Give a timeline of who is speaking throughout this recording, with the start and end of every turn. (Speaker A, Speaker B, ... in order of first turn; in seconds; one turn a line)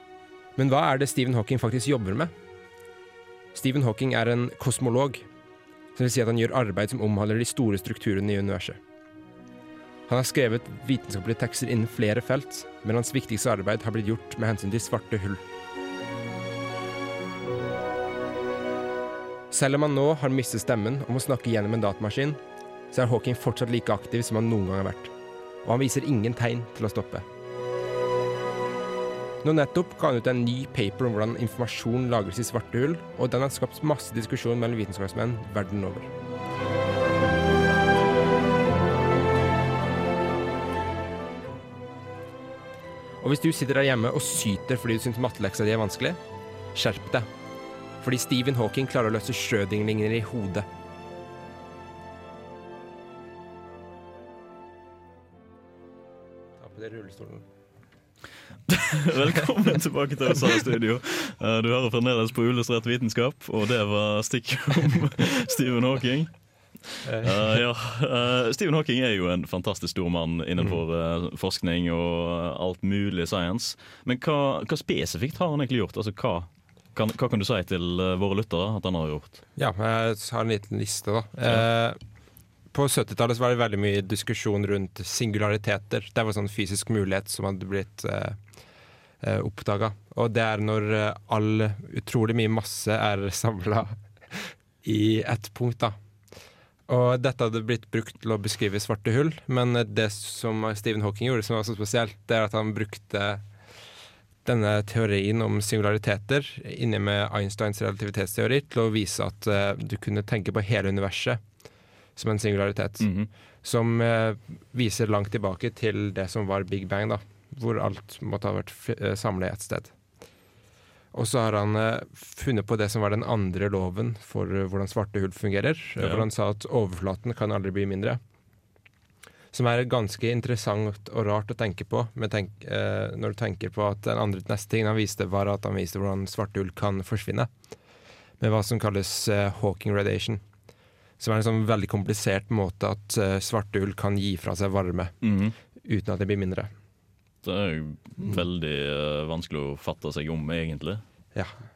Speaker A: 0.6-2.3
Speaker A: 3.5-5.3
Speaker A: 5.9-8.8
Speaker A: 10.1-15.4
Speaker A: 19.5-22.4
Speaker A: 22.9-25.1
Speaker A: 25.6-27.2
Speaker A: 29.4-36.1
Speaker A: 43.2-46.2
Speaker A: 46.7-47.3
Speaker A: 48.0-50.7
Speaker A: 56.6-57.5
Speaker B: 58.7-66.3
Speaker B: 66.8-79.4
Speaker A: 67.0-67.5
Speaker A: 79.5-82.0
Speaker A: 82.7-88.4
Speaker A: 89.2-96.0
Speaker A: 96.9-103.4
Speaker A: 104.4-111.4
Speaker A: 112.2-119.9
Speaker B: 113.0-113.3
Speaker A: 121.1-128.2
Speaker B: 126.0-126.2
Speaker A: 129.5-137.5
Speaker A: 138.4-140.4
Speaker A: 141.2-145.2
Speaker B: 145.2-145.5
Speaker A: 145.8-146.7
Speaker B: 147.4-151.0